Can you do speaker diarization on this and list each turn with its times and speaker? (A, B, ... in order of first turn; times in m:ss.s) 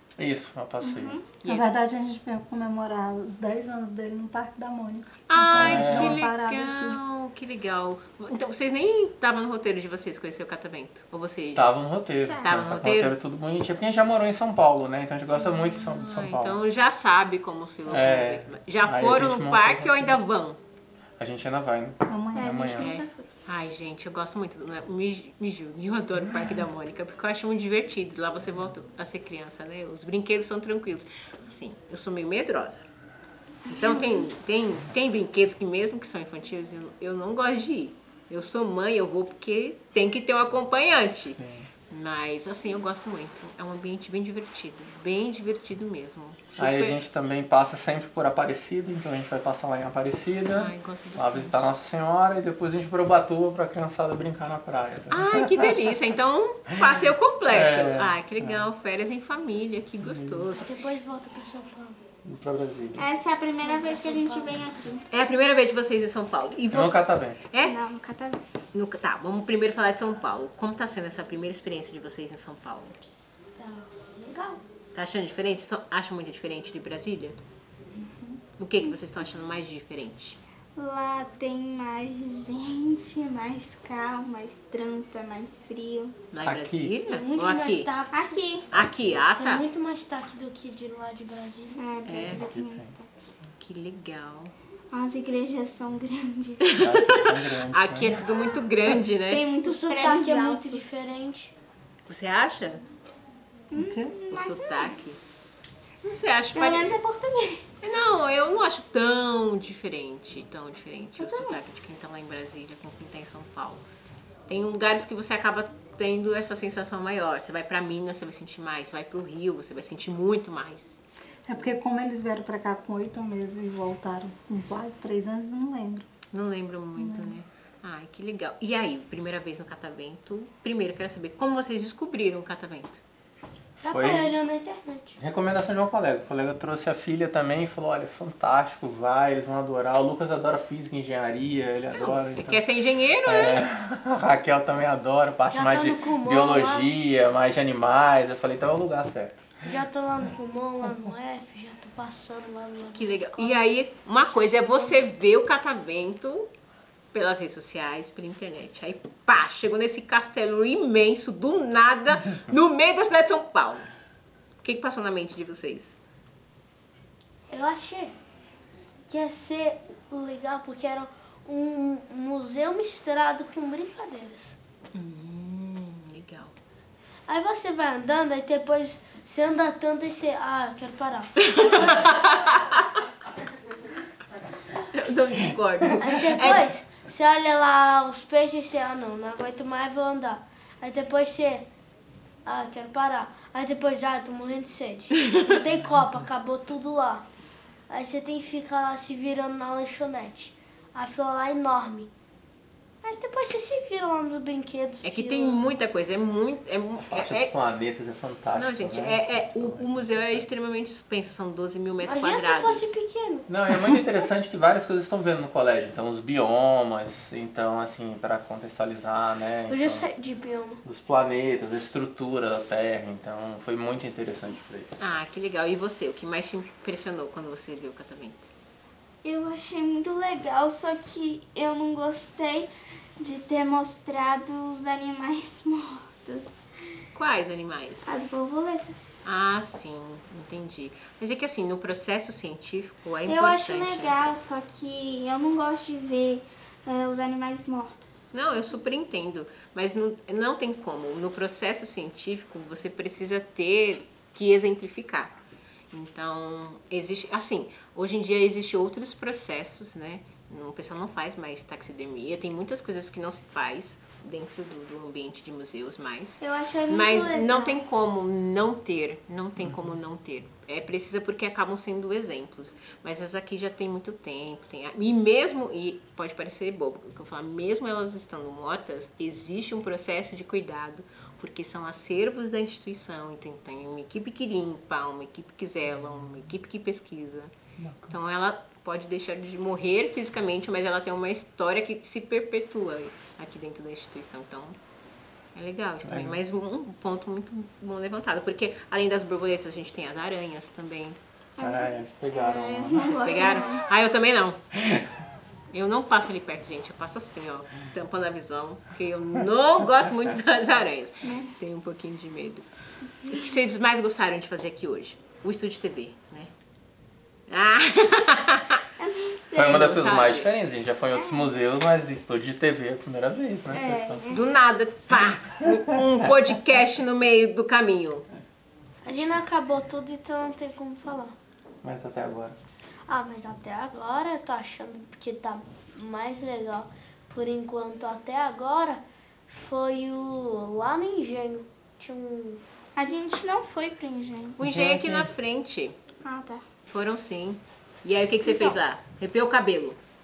0:00.2-0:01.2 A
0:00.8-0:01.2 B
0:01.4-0:07.0 C
0:05.3-0:11.8 D
0:05.6-0:06.2 E
0:11.6-0:13.6 A
0:12.3-0:12.6 B
0:12.4-0:13.2 D
0:12.7-0:15.8 E
0:14.2-0:16.6 A
0:15.5-0:20.6 D
0:17.9-0:19.7 A
0:19.1-0:20.2 E
0:21.2-0:22.0 E
0:21.4-0:22.9 A
0:22.1-0:22.8 C
0:22.3-0:23.3 B
0:22.8-0:32.8 D
0:33.7-0:34.3 B
0:33.7-0:41.4 D
0:41.4-0:41.7 E
0:41.9-0:47.0 D
0:46.6-0:47.6 A
0:47.0-0:50.4 E
0:49.2-0:54.4 A
0:50.5-0:51.7 D
0:51.6-0:55.2 E
0:54.9-0:55.2 A
0:55.1-1:00.8 D
0:57.6-0:58.6 A
1:00.0-1:00.4 E
1:00.6-1:04.6 A
1:02.2-1:02.8 E
1:03.0-1:05.0 B
1:05.1-1:07.8 D
1:06.7-1:07.4 A
1:06.9-1:07.3 E
1:07.6-1:08.4 B
1:08.7-1:13.1 D
1:13.5-1:14.6 A
1:14.9-1:17.4 D
1:18.6-1:20.4 D
1:20.8-1:26.2 B
1:26.3-1:27.9 D
1:26.4-1:27.0 E
1:26.5-1:28.6 A
1:28.1-1:28.7 B
1:28.7-1:29.6 D
1:29.4-1:31.8 A
1:31.7-1:33.2 B
1:32.0-1:32.4 D
1:32.4-1:32.9 A
1:33.6-1:34.5 D
1:34.9-1:36.8 B
1:36.6-1:39.5 D
1:36.8-1:38.3 A
1:39.3-1:41.1 B
1:39.6-1:41.5 A
1:42.1-1:42.8 D
1:43.7-1:45.6 B
1:43.7-1:44.1 C
1:44.3-1:45.2 D
1:46.0-1:47.0 D
1:46.5-1:47.7 B
1:47.8-1:53.8 D
1:51.2-1:51.6 B
1:54.5-2:01.0 D
2:01.5-2:06.1 C
2:06.3-2:13.0 D
2:07.0-2:07.4 C
2:13.8-2:14.4 E
2:13.8-2:15.2 A
2:15.2-2:22.0 E
2:16.2-2:22.6 A
2:21.9-2:23.7 D
2:23.2-2:24.4 A
2:23.7-2:29.8 E
2:25.0-2:33.6 A
2:30.4-2:30.8 E
2:32.1-2:32.4 E
2:33.0-2:36.5 D
2:37.1-2:43.9 D
2:44.6-2:46.0 D
2:47.5-2:48.1 A
2:47.5-2:47.8 E
2:49.1-2:54.6 A
2:51.8-2:52.1 E
2:52.9-2:53.5 E
2:54.9-2:56.6 D
2:57.3-3:02.1 A
3:01.5-3:02.8 D
3:04.8-3:06.7 D
3:06.0-3:11.7 A
3:06.2-3:07.0 E
3:12.4-3:17.2 A
3:15.4-3:16.4 E
3:17.9-3:22.1 A
3:23.0-3:25.7 A
3:25.0-3:27.5 D
3:27.1-3:29.9 A
3:28.5-3:32.9 D
3:28.8-3:30.5 E
3:32.0-3:45.0 A
3:33.5-3:36.2 E
3:37.0-3:42.4 E
3:43.0-3:43.6 E
3:44.5-3:44.9 E
3:45.0-3:48.5 D
3:49.2-3:56.6 B
3:57.2-3:58.2 D
3:58.1-3:59.2 B
3:59.2-4:04.2 D
4:03.2-4:08.1 B
4:08.3-4:15.3 D
4:15.9-4:47.5 D
4:26.4-4:27.8 B
4:47.8-4:48.2 E
4:48.1-4:54.8 D
4:55.5-5:01.2 D
4:56.0-4:56.3 E
5:01.6-5:03.8 B
5:01.6-5:03.1 A
5:03.0-5:04.7 D
5:05.7-5:12.7 D
5:13.2-5:16.5 D
5:17.5-5:18.8 D
5:19.0-5:20.1 B
5:19.6-5:20.5 D
5:19.6-5:24.3 A
5:21.1-5:21.5 B
5:22.1-5:23.0 E
5:23.7-5:24.5 B
5:24.3-5:28.3 D
5:29.1-5:32.5 A
5:31.8-5:32.6 E
5:33.1-5:39.0 A
5:39.6-5:42.6 A
5:43.0-5:44.6 B
5:44.6-5:46.0 D
5:44.6-5:45.3 E
5:46.2-5:46.6 B
5:46.9-5:50.0 D
5:48.4-5:48.8 B